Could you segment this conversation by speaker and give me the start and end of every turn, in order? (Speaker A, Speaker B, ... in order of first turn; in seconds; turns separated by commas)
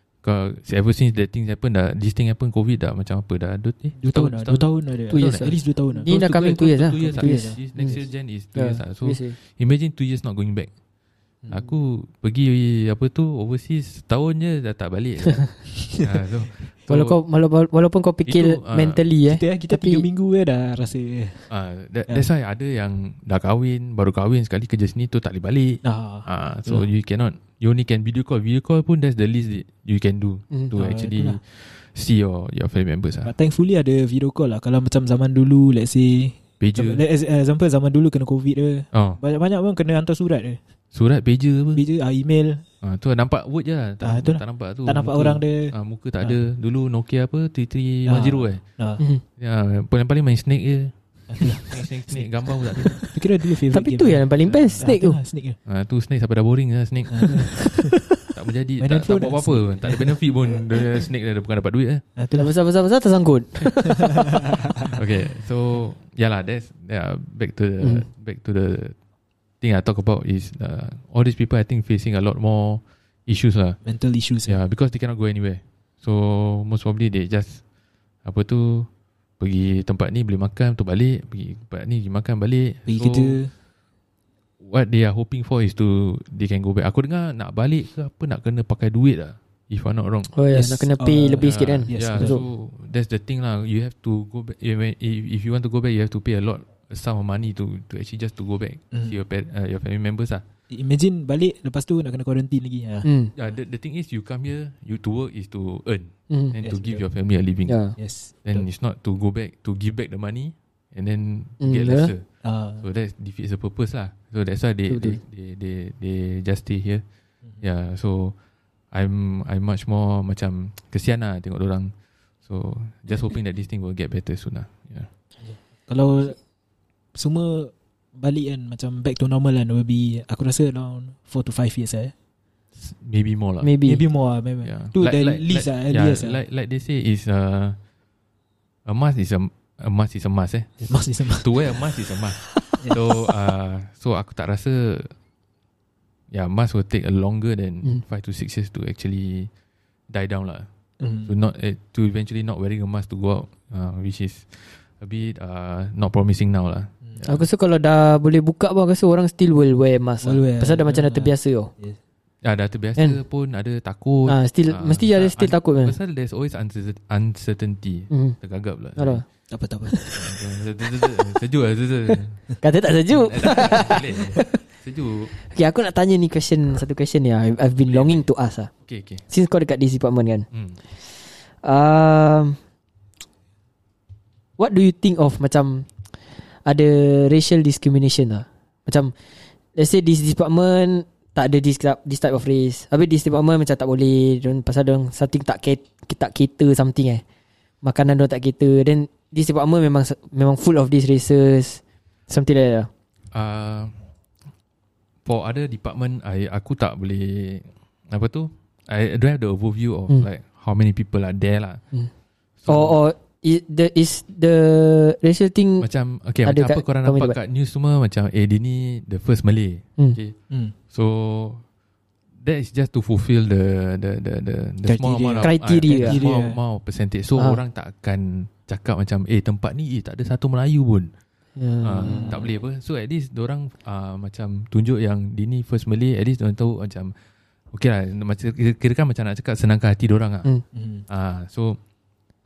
Speaker A: 0.2-5.5, Speaker B: 4.0-6.1, Speaker C: 5.1-8.0, Speaker A: 6.0-10.7, Speaker B: 7.1-8.1, Speaker C: 8.6-9.4, Speaker B: 11.4-11.7, Speaker A: 11.5-17.2, Speaker C: 16.9-20.1, Speaker A: 18.3-19.0, Speaker B: 19.3-21.5, Speaker A: 21.5-33.3, Speaker B: 25.8-26.9, Speaker B: 30.7-31.4, Speaker B: 33.2-40.6, Speaker A: 36.6-37.0, Speaker A: 38.9-39.2, Speaker A: 40.9-41.8, Speaker B: 41.8-42.6, Speaker A: 42.8-48.6, Speaker B: 44.0-46.4, Speaker B: 48.1-49.0, Speaker A: 49.4-53.0, Speaker B: 51.3-55.6, Speaker C: 53.7-55.2, Speaker A: 54.5-54.9, Speaker A: 55.7-57.4, Speaker B: 57.1-58.0, Speaker C: 57.2-57.6, Speaker A: 58.3-62.0, Speaker B: 58.8-60.2, Speaker B: 62.2-62.5, Speaker C: 62.3-64.4, Speaker B: 64.0-65.0, Speaker A: 64.9-69.0, Speaker A: 69.6-73.8, Speaker B: 73.8-74.6, Speaker A: 74.5-77.6, Speaker A: 78.2-83.4, Speaker B: 82.9-83.5, Speaker A: 84.6-90.3, Speaker C: 90.3-92.4, Speaker B: 90.5-92.4, Speaker A: 91.4-100.4, Speaker B: 98.9-99.2, Speaker B: 100.7-103.1, Speaker C: 103.0-103.3, Speaker A: 103.4-107.8, Speaker C: 106.3-106.5, Speaker B: 106.6-107.0, Speaker C: 107.7-108.0, Speaker B: 108.0-108.7, Speaker A: 108.5-112.2, Speaker C: 111.6-112.1, Speaker B: 112.4-112.8, Speaker A: 112.8-117.0, Speaker C: 114.9-115.2, Speaker A: 117.6-118.3, Speaker A: 118.9-121.9, Speaker A: 122.5-125.1, Speaker B: 125.4-126.4, Speaker B: 127.2-132.1, Speaker A: 132.8-133.7, Speaker C: 133.6-134.0, Speaker B: 133.8-136.4, Speaker A: 134.6-137.8, Speaker A: 138.9-145.1, Speaker B: 140.8-141.6, Speaker B: 142.7-143.0, Speaker A: 146.3-149.5, Speaker A: 150.1-150.7, Speaker B: 151.0-151.3, Speaker A: 151.3-157.5, Speaker C: 157.2-161.7, Speaker B: 160.2-162.0, Speaker A: 162.4-169.2, Speaker C: 164.3-166.0, Speaker C: 168.1-168.4, Speaker C: 169.0-169.2, Speaker B: 169.5-170.2, Speaker C: 169.9-170.2, Speaker A: 170.1-172.4, Speaker C: 172.6-174.5, Speaker A: 173.1-175.3, Speaker C: 175.5-178.7, Speaker A: 177.8-178.2, Speaker A: 178.8-179.2, Speaker C: 179.3-180.5, Speaker A: 180.5-180.8, Speaker C: 181.6-182.6, Speaker C: 184.6-185.9, Speaker C: 186.7-189.1, Speaker C: 189.8-197.2, Speaker C: 197.8-202.9, Speaker A: 203.3-204.0, Speaker A: 205.2-211.8, Speaker A: 212.6-213.0, Speaker C: 212.7-215.9, Speaker A: 215.8-220.4, Speaker C: 216.4-217.4, Speaker B: 220.5-220.8, Speaker A: 220.9-221.6, Speaker A: 222.4-231.1, Speaker B: 224.9-226.6, Speaker C: 225.4-226.2, Speaker C: 231.6-232.4, Speaker A: 231.8-237.2, Speaker B: 232.1-232.4, Speaker A: 237.7-240.5, Speaker B: 240.7-241.1, Speaker A: 241.1-241.8